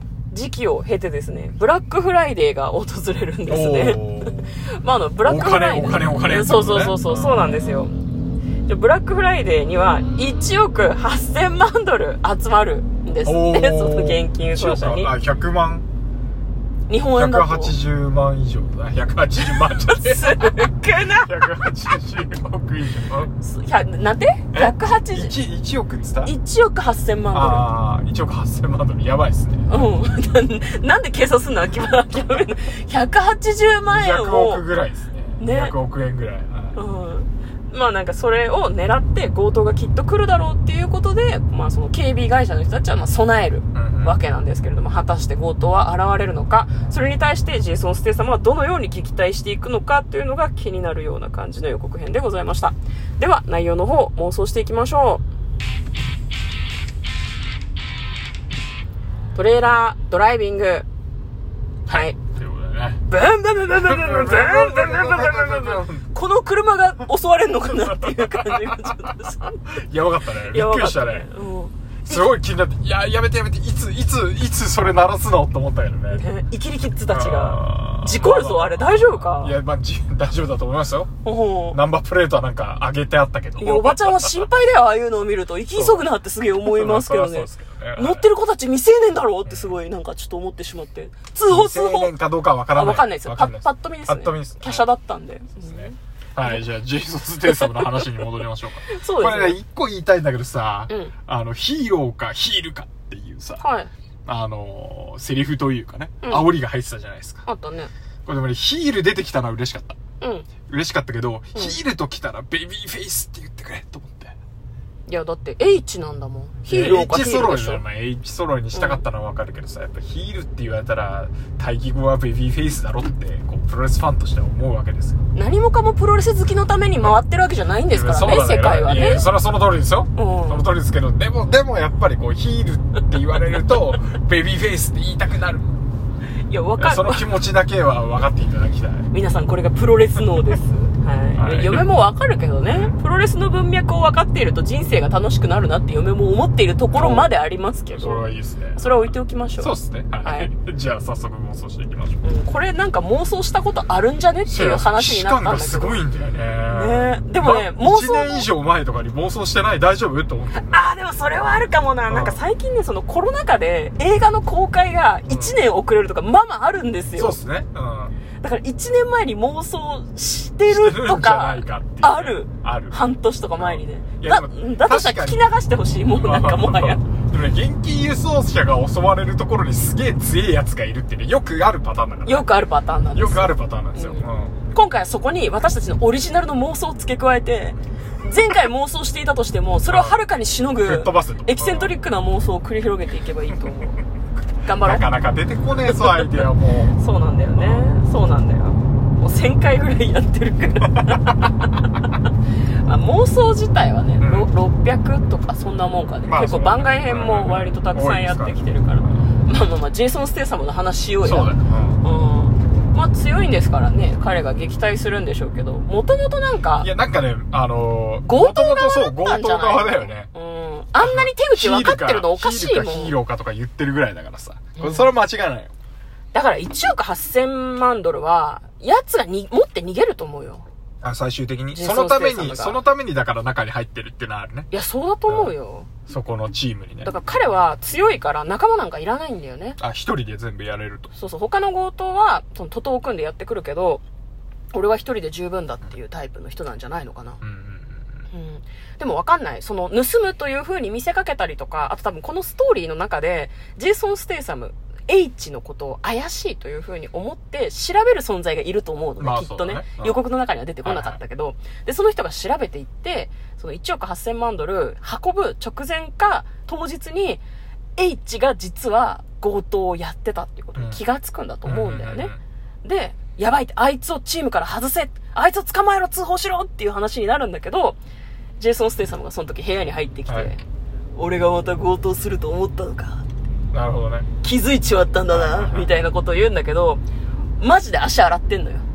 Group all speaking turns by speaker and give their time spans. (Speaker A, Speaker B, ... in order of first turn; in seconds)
Speaker A: 0.3-7.9, 8.7-15.1, 16.9-17.8, 19.7-21.3, 23.4-25.3, 26.2-27.7, 29.7-34.6, 35.4-35.7, 36.7-55.2, 59.3-60.9, 61.9-62.1, 63.1-69.6, 70.5-72.3, 76.1-79.6, 81.2-81.8, 83.6-92.1, 92.7-96.6, 97.5-98.2, 98.9-99.6, 100.9-101.1, 103.6-103.9, 106.2-106.5, 107.5-107.9, 110.2-110.5, 115.1-117.8, 118.7-119.0, 125.3-129.3, 130.2-130.6, 136.5-137.3, 139.1-148.2, 148.8-149.7, 150.2-150.5, 152.2-156.0, 156.7-158.4, 160.5-167.4, 168.4-177.0, 182.2-194.0, 194.6-195.1, 195.9-202.1, 202.8-216.9, 218.2-223.2, 224.8-225.1, 226.3-230.7, 231.7-232.8, 234.7-235.9, 237.0-239.8, 241.1-244.0, 244.7-247.4, 248.3-267.4, 268.0-272.3, 272.8-278.0, 278.6-280.6, 281.1-283.2, 284.4-287.0, 287.6-288.8
Speaker B: 3.5-4.5, 5.2-7.5, 13.2-15.8, 17.1-23.3, 24.5-26.3, 27.3-29.8, 33.9-36.8, 43.7-44.2, 61.9-63.0, 63.7-66.0, 67.7-71.3, 72.0-76.2, 77.1-81.1, 81.7-84.4, 85.7-86.1, 86.6-88.3, 89.5-89.8, 91.5-94.9, 95.6-103.6, 104.2-107.4, 108.2-110.0, 110.7-114.3, 116.7-125.2, 127.9-135.8, 136.8-139.1, 141.3-141.9, 142.7-142.9, 146.9-147.3, 147.9-152.2, 154.5-160.8, 162.1-162.4, 165.3-165.6, 167.2-168.1, 170.7-175.4, 176.0-182.5, 183.1-184.5, 189.9-190.2, 190.8-191.9, 194.8-196.9, 197.5-197.9, 200.9-201.4, 204.2-204.5, 206.2-209.3, 211.2-212.0, 216.8-220.3, 221.0-225.7, 231.0-234.7, 235.3-235.5, 236.1-237.1, 239.8-241.1, 247.4-248.2, 259.2-260.2, 260.8-261.2, 270.8-271.0, 271.6-272.4, 283.7-284.3, 285.3-285.9